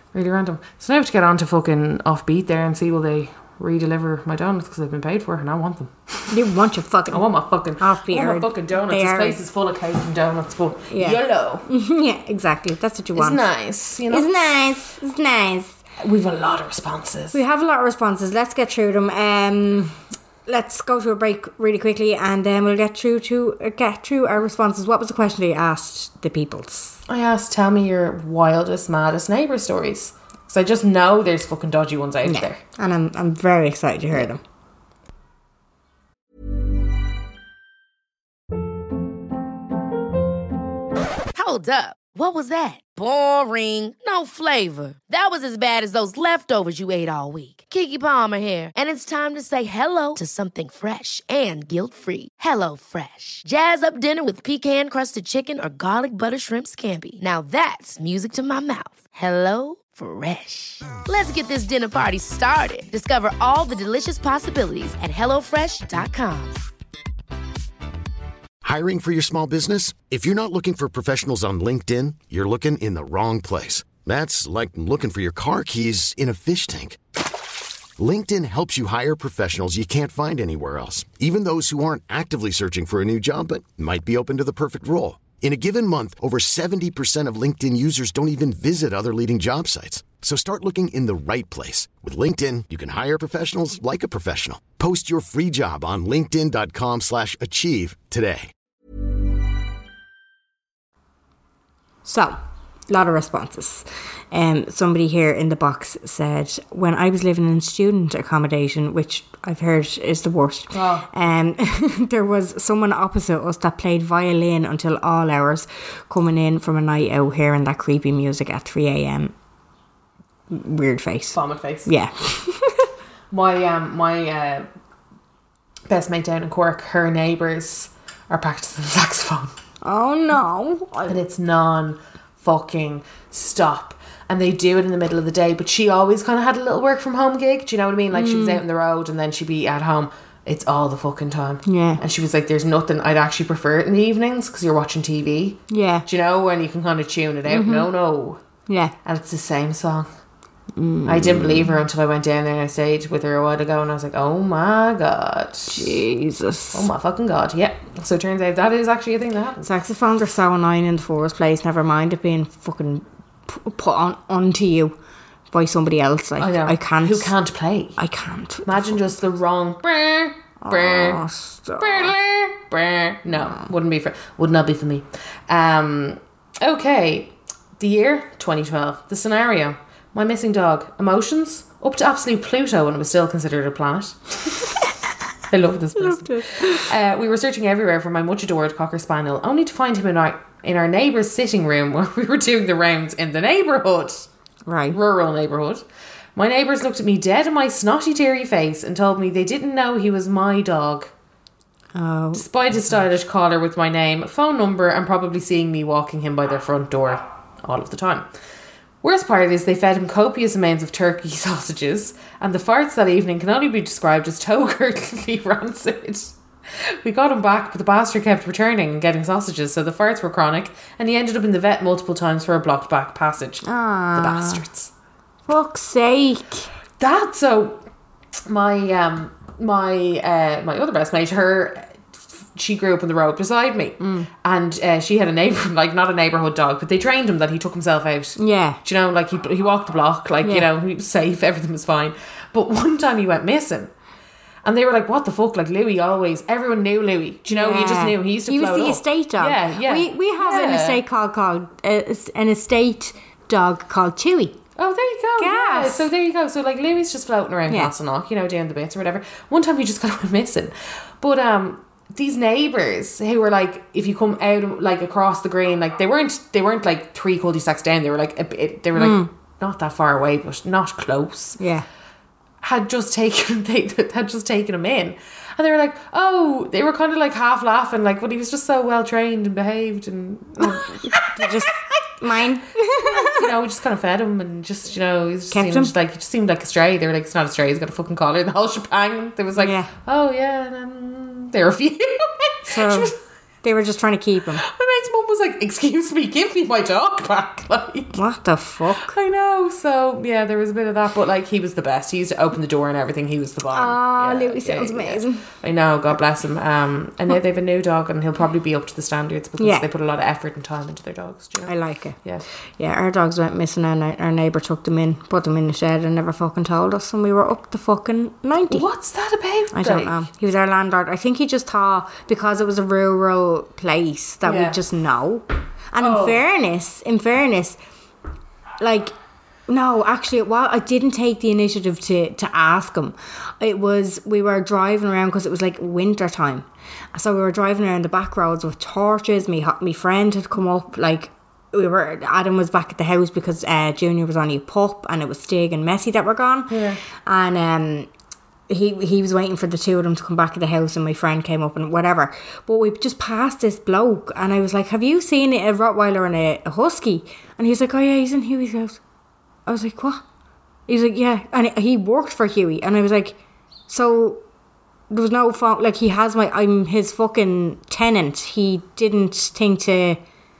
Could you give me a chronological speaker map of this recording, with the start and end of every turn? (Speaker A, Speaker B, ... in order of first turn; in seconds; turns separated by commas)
Speaker A: 0.1-6.4, Speaker B: 6.3-7.3, Speaker A: 7.1-11.7, Speaker B: 7.8-9.4, Speaker B: 10.9-13.4, Speaker A: 13.2-14.3, Speaker B: 14.1-15.8, Speaker A: 16.0-17.4, Speaker B: 17.3-27.0, Speaker A: 27.1-32.6, Speaker B: 32.2-34.4, Speaker C: 41.3-66.6, Speaker D: 68.6-77.0, Speaker D: 78.0-98.5, Speaker B: 102.0-102.4, Speaker B: 102.9-119.3, Speaker A: 110.7-111.1, Speaker B: 120.5-122.9, Speaker A: 121.3-121.9, Speaker A: 123.3-124.7, Speaker A: 125.9-129.5, Speaker B: 129.8-131.2, Speaker A: 131.1-148.4, Speaker B: 138.1-138.6, Speaker B: 141.7-142.0, Speaker B: 145.7-146.1, Speaker B: 147.5-147.9, Speaker B: 148.7-148.9, Speaker A: 149.0-150.1, Speaker B: 150.8-151.8, Speaker A: 151.1-156.0, Speaker B: 155.7-156.9, Speaker A: 156.7-159.7, Speaker B: 159.6-164.9, Speaker B: 165.5-167.3, Speaker A: 166.4-168.0, Speaker B: 168.0-168.9, Speaker A: 168.7-171.2, Speaker B: 170.6-172.1, Speaker A: 171.8-184.8, Speaker A: 185.5-194.3, Speaker B: 186.0-186.9, Speaker B: 194.7-195.0, Speaker A: 194.9-195.8, Speaker A: 196.4-201.1, Speaker B: 201.9-202.4, Speaker A: 202.3-208.3, Speaker A: 209.0-224.9, Speaker B: 223.6-224.6, Speaker B: 225.5-226.7, Speaker A: 227.0-227.8, Speaker A: 228.5-232.0, Speaker A: 232.5-243.9, Speaker B: 234.0-234.3, Speaker B: 238.4-238.8, Speaker A: 244.6-251.0, Speaker B: 247.5-254.6, Speaker A: 254.8-271.6, Speaker B: 255.4-256.1, Speaker B: 268.9-269.3, Speaker B: 271.6-271.9, Speaker A: 272.6-281.8, Speaker B: 280.6-283.5, Speaker A: 283.1-293.2, Speaker B: 285.5-285.9, Speaker B: 289.6-289.9, Speaker B: 292.7-293.1, Speaker B: 293.6-294.6, Speaker A: 294.6-298.2, Speaker B: 298.1-299.1, Speaker A: 299.0-312.4, Speaker B: 303.7-305.5, Speaker B: 309.6-309.9, Speaker B: 311.7-312.2, Speaker B: 312.8-318.9, Speaker A: 318.7-320.2, Speaker B: 319.7-327.8, Speaker A: 324.4-324.8, Speaker A: 326.0-326.4, Speaker B: 328.8-329.1, Speaker B: 329.7-348.1, Speaker A: 346.7-347.0, Speaker B: 348.7-359.0, Speaker B: 359.7-360.2, Speaker B: 360.9-363.4, Speaker B: 363.9-364.4, Speaker B: 365.1-370.2